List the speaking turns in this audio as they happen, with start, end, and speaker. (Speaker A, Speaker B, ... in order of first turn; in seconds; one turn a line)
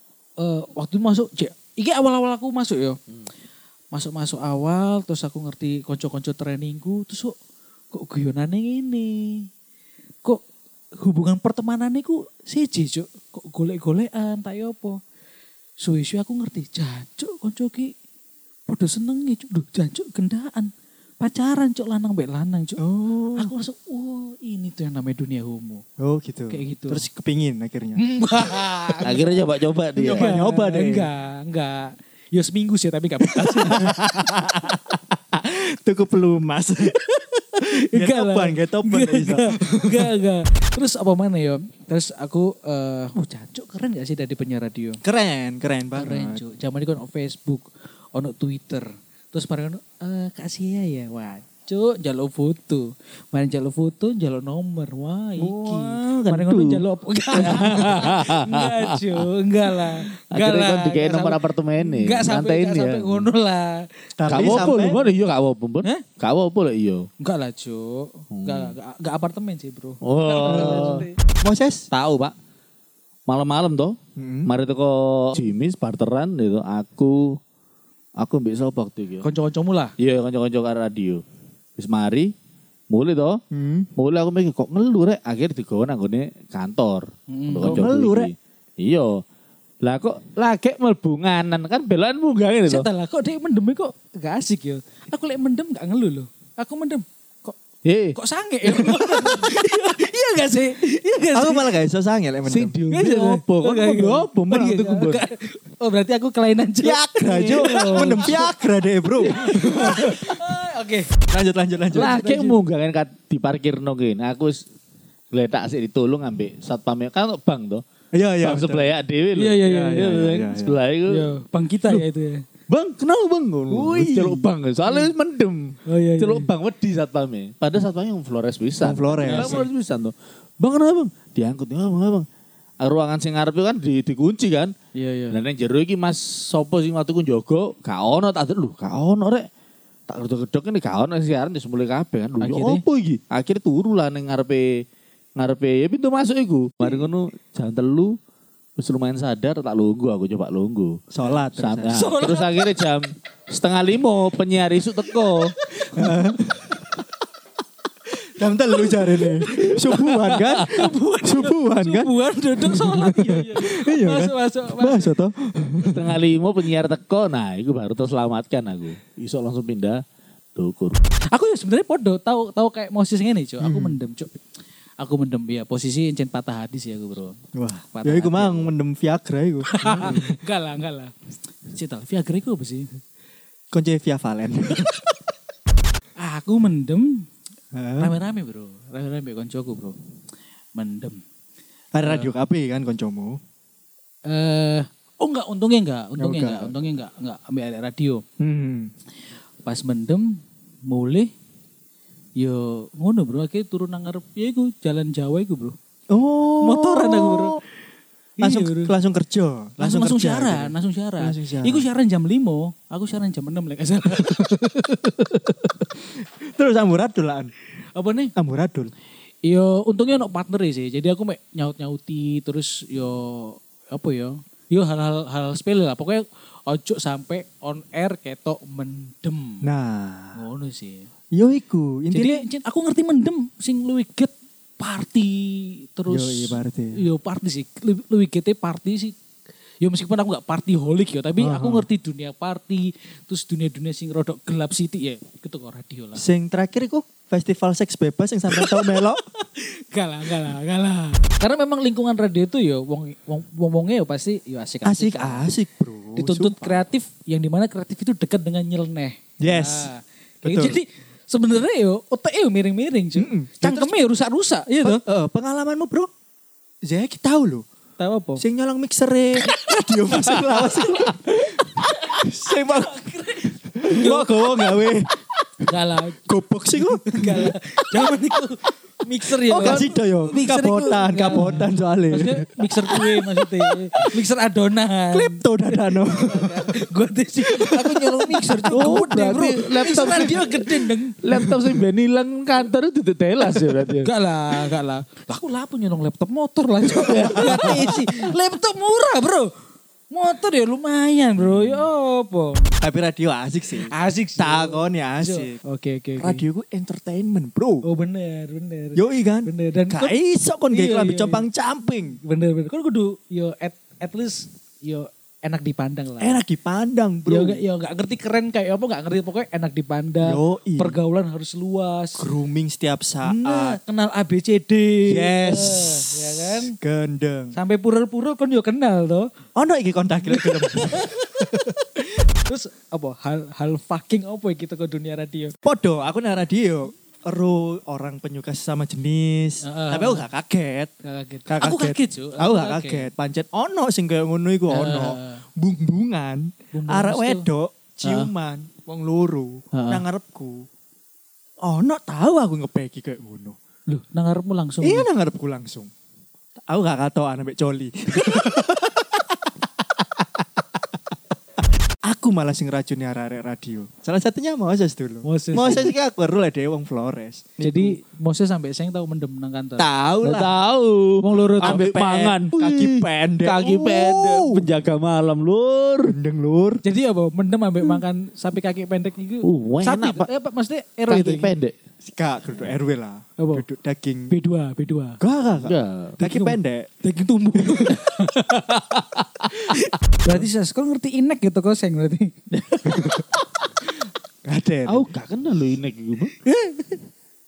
Speaker A: 0.4-3.0
Speaker A: 3.9-7.3
Speaker A: 7.9-9.5
Speaker A: 11.0-15.0
Speaker A: 15.8-17.9
Speaker A: 18.7-22.8
Speaker B: 22.8-23.5
Speaker A: 23.4-25.8
Speaker B: 26.0-28.0
Speaker A: 26.5-27.1
Speaker A: 28.0-34.0
Speaker C: 29.0-30.3
Speaker B: 30.1-31.1
Speaker B: 33.5-40.0
Speaker A: 37.7-45.0
Speaker B: 45.0-46.4
Speaker A: 45.9-65.2
Speaker C: 55.4-56.8
Speaker C: 57.4-59.2
Speaker C: 59.9-63.3
Speaker B: 64.2-65.0
Speaker C: 64.3-67.1
Speaker A: 67.2-71.2
Speaker C: 68.3-68.7
Speaker C: 70.0-71.1
Speaker B: 70.5-71.9
Speaker C: 71.9-72.3
Speaker C: 73.3-74.0
Speaker B: 74.2-74.5
Speaker C: 74.5-77.4
Speaker C: 78.2-79.3
Speaker A: 79.2-79.9
Speaker C: 80.0-81.2
Speaker C: 81.8-82.3
Speaker C: 82.9-83.4
Speaker B: 83.5-83.9
Speaker C: 84.0-89.1
Speaker A: 87.3-87.9
Speaker B: 87.6-88.3
Speaker C: 89.8-92.9
Speaker A: 92.7-97.6
Speaker C: 97.8-98.2
Speaker A: 98.2-101.7
Speaker B: 98.7-99.5
Speaker B: 101.3-102.8
Speaker A: 102.5-108.4
Speaker C: 102.8-105.2
Speaker B: 106.8-110.3
Speaker C: 107.3-108.4
Speaker A: 109.3-111.1
Speaker B: 111.3-112.2
Speaker A: 111.9-112.6
Speaker C: 111.9-114.6
Speaker C: 115.3-117.8
Speaker B: 118.1-118.9
Speaker C: 118.4-121.3
Speaker A: 119.4-120.2
Speaker B: 119.6-120.8
Speaker A: 121.1-122.4
Speaker C: 122.7-132.3
Speaker B: 123.7-124.5
Speaker A: 125.9-126.5
Speaker B: 128.8-129.6
Speaker A: 129.3-129.7
Speaker C: 132.8-134.7
Speaker A: 134.9-135.4
Speaker C: 135.3-139.4
Speaker C: 140.1-144.7
Speaker A: 142.4-142.8
Speaker C: 145.4-148.1
Speaker C: 148.8-151.0
Speaker B: 151.1-152.1
Speaker C: 151.6-155.5
Speaker A: 151.9-152.8
Speaker B: 155.8-156.9
Speaker B: 158.3-166.1
Speaker A: 158.8-165.2
Speaker C: 165.8-170.0
Speaker C: 170.6-171.0
Speaker A: 171.3-174.3
Speaker B: 173.6-174.0
Speaker A: 175.0-177.4
Speaker B: 177.6-180.4
Speaker A: 177.9-178.7
Speaker A: 179.7-181.1
Speaker A: 181.7-183.0
Speaker B: 183.7-184.9
Speaker A: 186.2-187.3
Speaker B: 187.7-188.1
Speaker A: 188.0-190.0
Speaker A: 190.8-191.2
Speaker B: 191.9-193.4
Speaker A: 192.0-192.3
Speaker A: 194.3-198.2
Speaker B: 196.2-196.8
Speaker B: 198.4-198.9
Speaker A: 199.6-200.4
Speaker A: 200.9-201.3
Speaker A: 202.4-205.8
Speaker B: 206.1-207.6
Speaker A: 206.6-207.6
Speaker A: 208.4-208.9
Speaker B: 208.4-211.8
Speaker A: 209.8-215.3
Speaker B: 216.4-217.5
Speaker A: 217.9-218.3
Speaker B: 218.4-218.9
Speaker A: 219.4-229.7
Speaker B: 229.6-230.4
Speaker A: 230.4-231.1
Speaker B: 231.3-232.4
Speaker A: 232.1-239.2
Speaker B: 236.1-237.0
Speaker A: 239.8-246.2
Speaker B: 241.4-241.9
Speaker B: 246.2-249.2
Speaker A: 248.5-255.5
Speaker B: 254.8-256.8
Speaker A: 256.1-265.0
Speaker B: 259.4-259.9
Speaker B: 260.4-260.8
Speaker B: 263.2-263.9
Speaker B: 264.8-266.1
Speaker B: 266.8-267.7
Speaker A: 268.0-268.4
Speaker B: 268.4-273.1
Speaker A: 271.7-274.8
Speaker B: 273.6-275.2
Speaker A: 275.6-276.2
Speaker B: 276.3-278.1
Speaker A: 276.8-291.8
Speaker B: 279.4-283.4
Speaker B: 285.1-286.7
Speaker B: 287.5-289.2
Speaker C: 288.7-294.1
Speaker A: 293.6-299.5
Speaker C: 296.9-297.9
Speaker A: 300.1-302.7
Speaker B: 302.8-305.6
Speaker A: 303.9-306.4
Speaker B: 306.2-307.9
Speaker A: 307.9-310.2
Speaker B: 308.9-312.2
Speaker A: 310.7-311.5
Speaker A: 312.1-316.4
Speaker B: 316.2-317.6
Speaker A: 317.3-322.2
Speaker B: 320.2-321.0
Speaker B: 322.2-323.8
Speaker A: 323.2-326.7
Speaker B: 325.1-327.6
Speaker A: 327.5-329.3
Speaker B: 329.6-331.8
Speaker A: 330.3-331.4
Speaker A: 332.0-335.5
Speaker B: 335.6-340.9
Speaker A: 339.6-340.3
Speaker A: 341.0-343.1
Speaker B: 341.5-350.6
Speaker A: 344.7-345.4
Speaker A: 346.7-347.5
Speaker A: 348.0-348.3
Speaker A: 349.7-350.1
Speaker B: 351.6-353.6
Speaker A: 353.9-355.1
Speaker B: 354.8-355.9
Speaker B: 356.7-359.3
Speaker B: 362.1-368.0
Speaker A: 365.2-365.9
Speaker A: 367.6-369.9
Speaker B: 369.8-370.6
Speaker C: 370.2-376.2
Speaker A: 371.2-371.9
Speaker B: 371.6-374.7
Speaker B: 376.1-376.8
Speaker A: 376.8-381.6
Speaker C: 379.4-380.3
Speaker C: 381.1-381.8
Speaker B: 382.0-384.3
Speaker A: 383.4-383.6
Speaker A: 384.3-385.2
Speaker B: 385.2-386.9
Speaker C: 385.6-386.2
Speaker A: 386.2-393.2
Speaker B: 392.9-393.2
Speaker B: 394.4-395.1
Speaker C: 394.9-396.4
Speaker B: 396.5-396.9